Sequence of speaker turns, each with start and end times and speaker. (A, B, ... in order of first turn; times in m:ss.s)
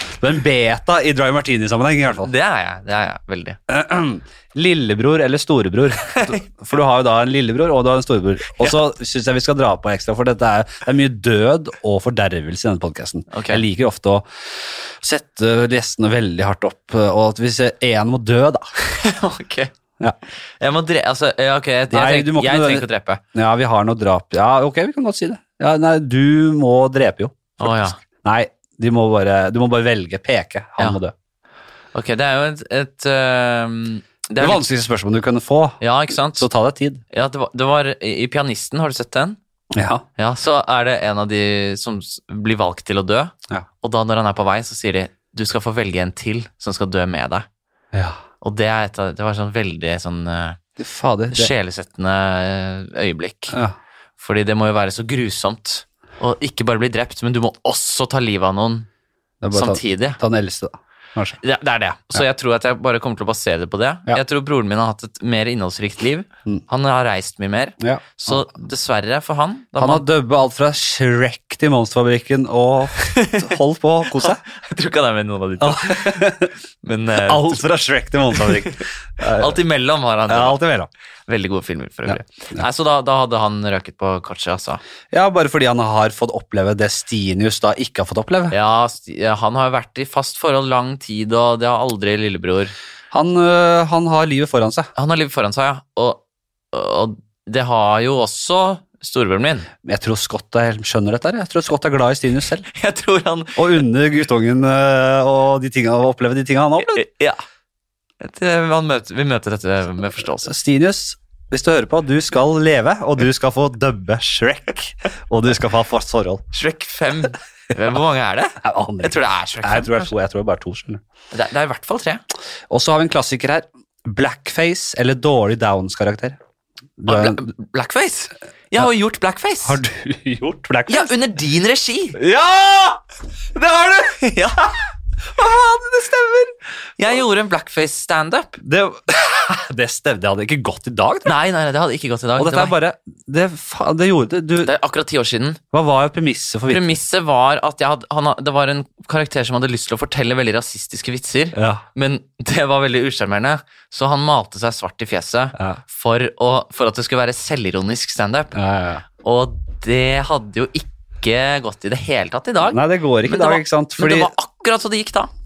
0:00.2-0:02.3 A
0:02.1-0:03.6 B
0:03.7-0:14.2 A
0:13.3-0:13.6 B
0:15.0-0:18.7 A
0:18.8-0:19.7 B
0:20.6-0:23.2 B
0:21.9-0:31.1 A
0:27.6-0:28.0 B
0:31.9-0:34.7 B
0:34.4-0:35.8 A
0:35.8-0:36.5 B
0:36.4-0:37.0 A
0:37.1-0:39.4 B
0:39.7-0:40.0 A
0:40.2-0:47.5 B
0:47.9-0:48.2 A
0:48.4-0:50.6 B
0:50.8-0:51.5 A
0:51.3-0:53.6 B
0:54.2-0:58.9 B
0:59.4-1:01.4 A
0:59.5-1:00.2 B
1:01.4-1:10.0 B
1:07.8-1:08.4 A
1:09.8-1:14.4 A
1:13.0-1:13.5 B
1:14.2-1:16.3 B
1:15.6-1:16.5 A
1:16.8-1:17.6 B
1:17.2-1:19.6 A
1:18.3-1:20.6 B
1:20.3-1:20.9 A
1:21.3-1:24.8 B
1:22.1-1:22.6 A
1:25.1-1:28.6 A
1:28.5-1:32.7 B
1:33.1-1:34.9 A
1:35.0-1:36.2 B
1:36.7-1:39.7 B
1:39.8-1:42.7 A
1:42.7-1:43.8 B
1:43.6-1:47.0 A
1:46.8-1:47.4 B
1:48.2-1:50.5 B
1:50.4-1:56.4 A
1:56.5-2:00.1 B
1:58.6-2:01.0 A
2:01.3-2:02.2 B
2:02.7-2:06.4 A
2:07.0-2:07.5 A
2:07.1-2:09.8 B
2:09.6-2:11.1 A
2:10.9-2:12.2 B
2:12.2-2:13.0 A
2:13.5-2:14.4 A
2:14.2-2:14.6 B
2:15.4-2:16.6 A
2:17.0-2:18.6 B
2:18.6-2:21.3 A
2:21.2-2:22.8 B
2:22.4-2:24.7 A
2:24.6-2:25.6 B
2:25.7-2:27.0 A
2:26.7-2:38.6 B
2:31.5-2:31.8 A
2:35.6-2:35.8 A
2:38.6-2:39.0 A
2:39.2-2:45.3 B
2:42.6-2:44.3 A